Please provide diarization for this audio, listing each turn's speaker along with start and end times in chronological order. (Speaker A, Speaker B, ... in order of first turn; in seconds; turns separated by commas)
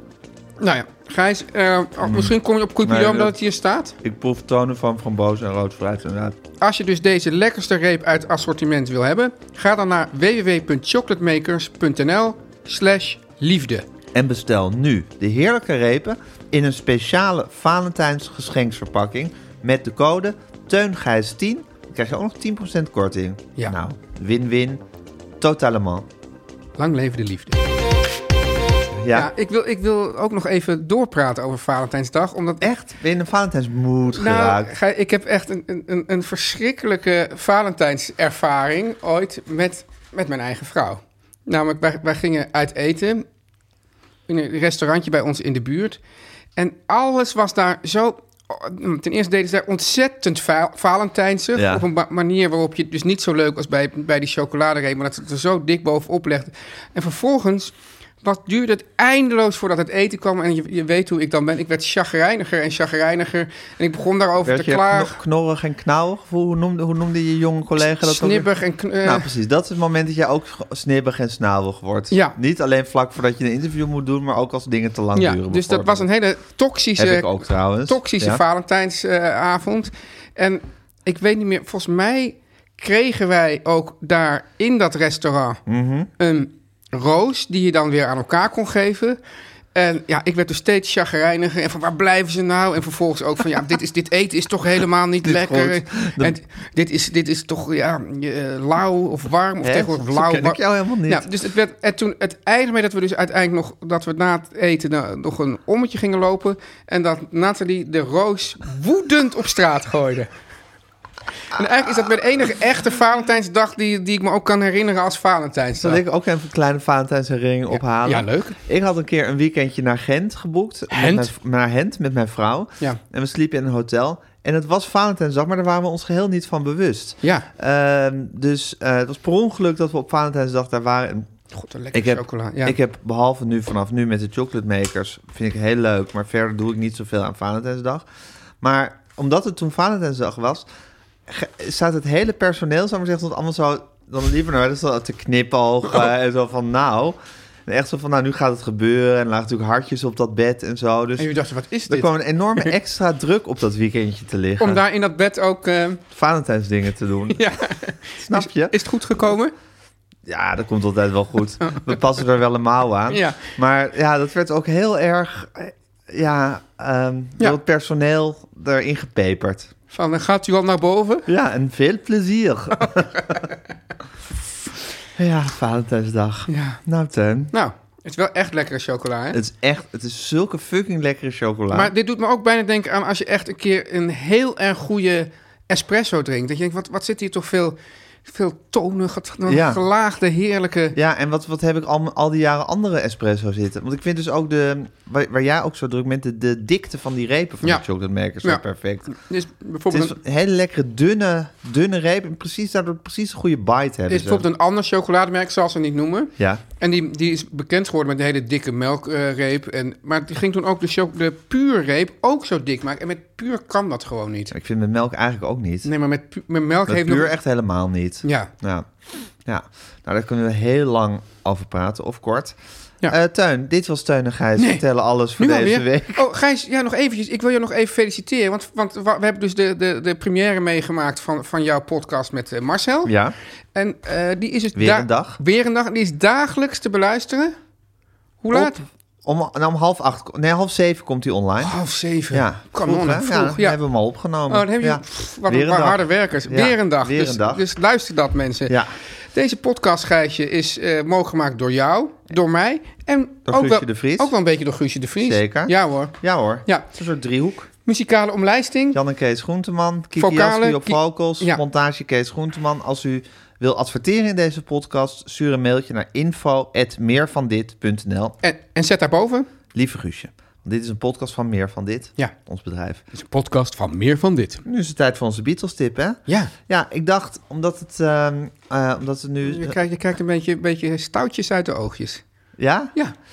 Speaker A: 0.6-3.9, Speaker B: 2.0-3.4, Speaker B: 4.0-6.3, Speaker A: 6.6-13.8, Speaker B: 14.1-24.8, Speaker B: 25.4-26.1, Speaker A: 26.8-27.6, Speaker B: 28.9-29.3, Speaker A: 29.1-32.7, Speaker B: 32.6-34.7, Speaker A: 34.1-43.2, Speaker A: 44.3-46.0, Speaker A: 46.5-65.1, Speaker B: 51.5-51.8, Speaker B: 64.4-68.5, Speaker A: 67.8-69.3, Speaker B: 69.0-76.1, Speaker A: 72.1-72.4, Speaker A: 75.1-85.6, Speaker B: 77.0-78.4, Speaker B: 85.7-86.1, Speaker A: 86.2-89.2, Speaker A: 89.7-110.3, Speaker B: 95.2-96.4, Speaker B: 99.6-101.3, Speaker A: 111.5-116.0, Speaker B: 115.8-131.3, Speaker A: 117.7-118.6, Speaker A: 120.9-121.3, Speaker A: 127.2-127.5, Speaker A: 131.5-132.8, Speaker B: 131.9-138.0, Speaker B: 138.6-140.7, Speaker B: 141.3-151.3, Speaker A: 151.2-152.7, Speaker B: 151.9-154.8, Speaker A: 154.6-156.0, Speaker B: 156.1-157.4, Speaker A: 157.3-159.5, Speaker B: 158.2-158.8, Speaker B: 160.2-169.7, Speaker A: 163.1-163.4, Speaker A: 169.9-171.3, Speaker B: 171.2-173.4, Speaker B: 175.2-177.5, Speaker A: 176.5-176.8, Speaker A: 177.5-179.4, Speaker B: 179.3-181.9, Speaker A: 181.7-190.9, Speaker B: 189.5-189.8, Speaker B: 190.9-199.1, Speaker A: 198.4-200.1, Speaker B: 199.9-204.4, Speaker A: 204.1-214.5, Speaker B: 214.5-215.9, Speaker A: 215.8-217.3, Speaker B: 216.9-218.9, Speaker A: 218.2-218.5, Speaker B: 219.4-222.6, Speaker B: 223.1-226.3, Speaker A: 225.4-233.1, Speaker B: 233.0-233.3, Speaker A: 233.7-237.6, Speaker B: 234.7-235.4, Speaker A: 238.4-238.8, Speaker B: 238.5-241.8, Speaker A: 241.6-243.8, Speaker B: 242.3-247.7, Speaker A: 244.5-248.8, Speaker B: 248.7-248.9, Speaker A: 249.3-256.9, Speaker B: 253.5-254.3, Speaker B: 255.2-257.7, Speaker A: 257.8-259.0, Speaker B: 258.9-268.4, Speaker A: 260.2-261.6, Speaker A: 268.4-269.5, Speaker B: 269.7-273.0, Speaker A: 273.1-274.6, Speaker B: 274.6-279.8, Speaker A: 276.3-276.5, Speaker A: 279.4-282.2, Speaker B: 282.6-282.9